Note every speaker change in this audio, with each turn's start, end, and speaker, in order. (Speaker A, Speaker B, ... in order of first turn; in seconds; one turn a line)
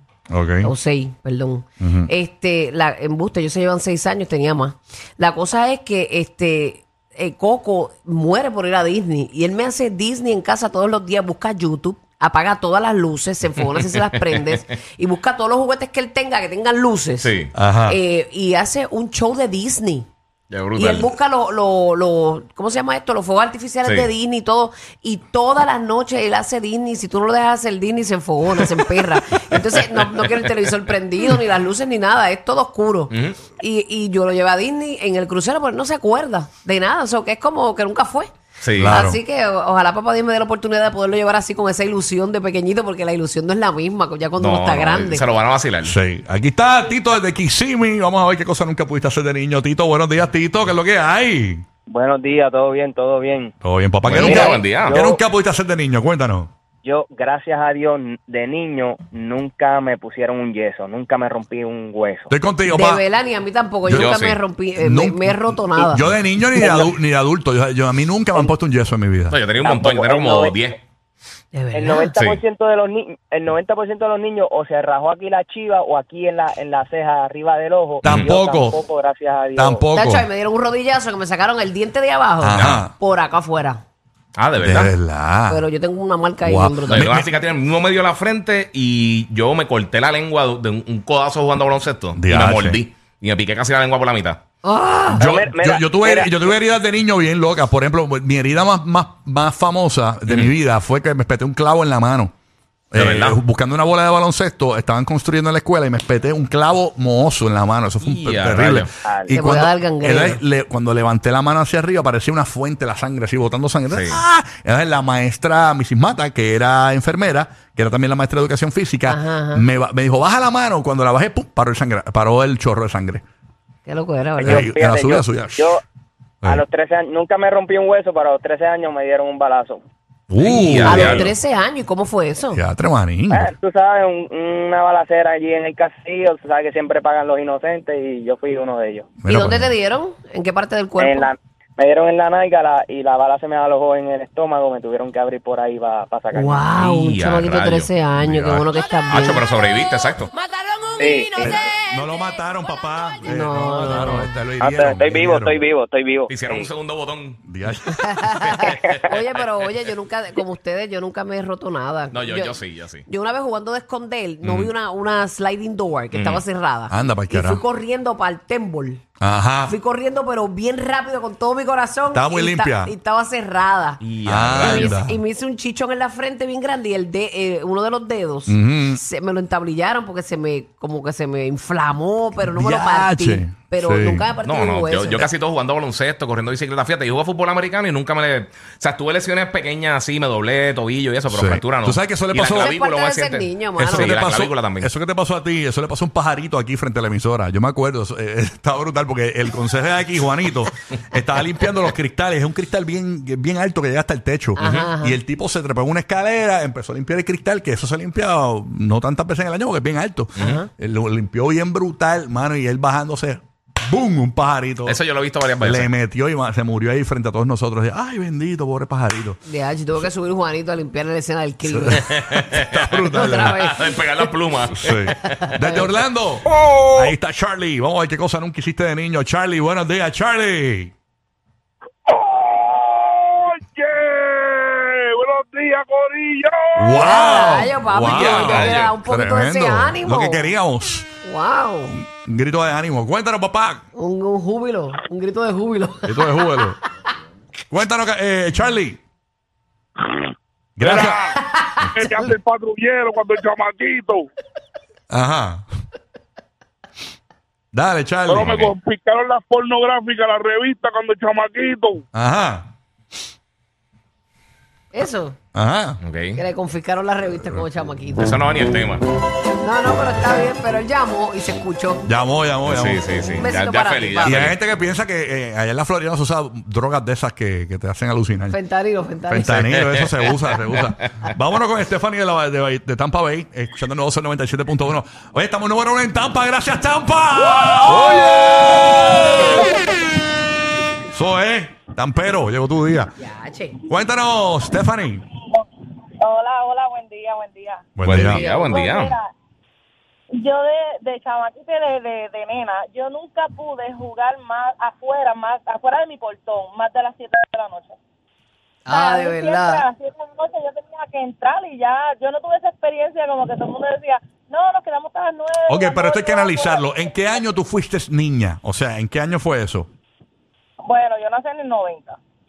Speaker A: 0.3-0.7
Speaker B: 0.6-17.3
Speaker A: 1.8-2.1
Speaker C: 17.2-17.5
Speaker A: 17.5-18.0
Speaker B: 17.9-20.1
Speaker C: 20.5-21.1
Speaker B: 20.8-38.3
Speaker C: 23.9-24.1
Speaker C: 33.1-33.4
Speaker C: 38.6-39.0
Speaker A: 38.8-39.2
Speaker B: 38.9-45.2
Speaker C: 44.4-46.0
Speaker A: 45.8-51.6
Speaker D: 51.9-53.5
Speaker A: 53.6-56.5
Speaker C: 54.0-55.0
Speaker D: 54.1-55.2
Speaker D: 56.8-62.3
Speaker A: 62.3-63.0
Speaker B: 62.7-66.1
Speaker A: 63.9-69.4
Speaker C: 63.9-64.4
Speaker D: 66.6-66.9
Speaker C: 69.3-70.8
Speaker D: 69.6-70.5
Speaker B: 71.5-72.1
Speaker D: 71.7-79.8
Speaker C: 72.2-72.4
Speaker A: 78.0-78.8
Speaker A: 79.6-80.3
Speaker B: 80.0-83.8
Speaker A: 82.4-82.9
Speaker C: 82.5-82.9
Speaker C: 84.4-84.9
Speaker A: 84.6-85.7
Speaker B: 85.5-87.1
Speaker A: 86.4-87.3
Speaker C: 86.9-94.4
Speaker A: 92.2-92.8
Speaker B: 94.6-95.2
Speaker A: 95.2-102.3
Speaker D: 95.2-96.3
Speaker C: 100.3-100.5
Speaker A: 102.9-123.2
Speaker C: 103.0-103.4
Speaker C: 108.0-108.9
Speaker D: 109.0-109.3
Speaker B: 109.3-110.4
Speaker C: 113.9-114.2
Speaker B: 119.1-119.7
Speaker B: 123.9-124.7
Speaker D: 124.4-125.8
Speaker A: 124.4-125.7
Speaker D: 126.5-129.8
Speaker A: 130.3-131.3
Speaker C: 130.4-131.3
Speaker B: 130.8-132.6
Speaker A: 132.5-133.5
Speaker D: 133.3-139.1
Speaker A: 139.2-139.7
Speaker B: 139.3-141.3
Speaker D: 141.0-146.6
Speaker B: 146.3-149.4
Speaker C: 146.8-147.9
Speaker A: 148.2-148.7
Speaker C: 149.1-150.3
Speaker D: 151.0-151.5
Speaker A: 151.4-155.7
Speaker B: 153.2-154.3
Speaker D: 154.6-156.7
Speaker C: 156.3-157.4
Speaker A: 157.5-158.2
Speaker B: 157.9-169.0
Speaker C: 158.2-159.1
Speaker D: 158.7-159.0
Speaker C: 162.1-163.1
Speaker C: 164.4-164.7
Speaker C: 166.1-166.4
Speaker A: 166.9-167.6
Speaker A: 169.2-169.8
Speaker B: 169.7-174.0
Speaker A: 172.1-172.9
Speaker C: 174.0-175.0
Speaker A: 174.2-175.2
Speaker B: 174.6-185.3
Speaker A: 178.5-179.0
Speaker A: 182.5-184.3
Speaker C: 184.4-194.9
Speaker A: 191.3-192.8
Speaker B: 192.5-194.2
Speaker A: 193.8-215.0
Speaker B: 204.6-205.2
Speaker C: 204.6-204.9
Speaker B: 210.4-210.7
Speaker C: 214.8-215.9
Speaker A: 215.6-219.4
Speaker B: 219.4-222.0
Speaker A: 221.7-223.7
Speaker C: 222.0-225.1
Speaker B: 223.1-224.1
Speaker A: 224.7-230.9
Speaker B: 225.2-225.9
Speaker E: 232.1-237.3
Speaker A: 236.8-241.1
Speaker B: 236.9-240.6
Speaker C: 237.9-238.9
Speaker B: 241.2-242.0
Speaker A: 241.9-243.8
Speaker B: 243.9-246.7
Speaker A: 246.1-246.8
Speaker A: 247.7-249.0
Speaker A: 250.8-251.3
Speaker E: 250.8-251.3
Speaker B: 251.4-252.0
Speaker E: 251.9-254.3
Speaker A: 255.1-255.7
Speaker A: 257.7-258.7
Speaker E: 258.3-262.0
Speaker C: 258.4-258.7
Speaker A: 262.1-262.7
Speaker B: 264.9-265.4
Speaker A: 265.5-266.0
Speaker C: 266.0-266.4
Speaker B: 266.4-268.4
Speaker C: 268.2-269.1
Speaker B: 269.6-272.1
Speaker A: 272.1-273.1
Speaker C: 272.7-274.6
Speaker B: 273.3-274.5
Speaker A: 274.2-278.6
Speaker B: 278.5-279.6
Speaker A: 279.3-289.7
Speaker A: 291.1-293.1
Speaker B: 293.2-293.8
Speaker A: 293.9-295.2
Speaker F: 296.2-299.3
Speaker A: 298.0-298.4
Speaker C: 298.0-299.2
Speaker B: 298.1-298.8
Speaker F: 300.3-307.9
Speaker B: 308.9-309.9
Speaker F: 308.9-317.1
Speaker A: 315.7-319.9
Speaker F: 320.9-322.2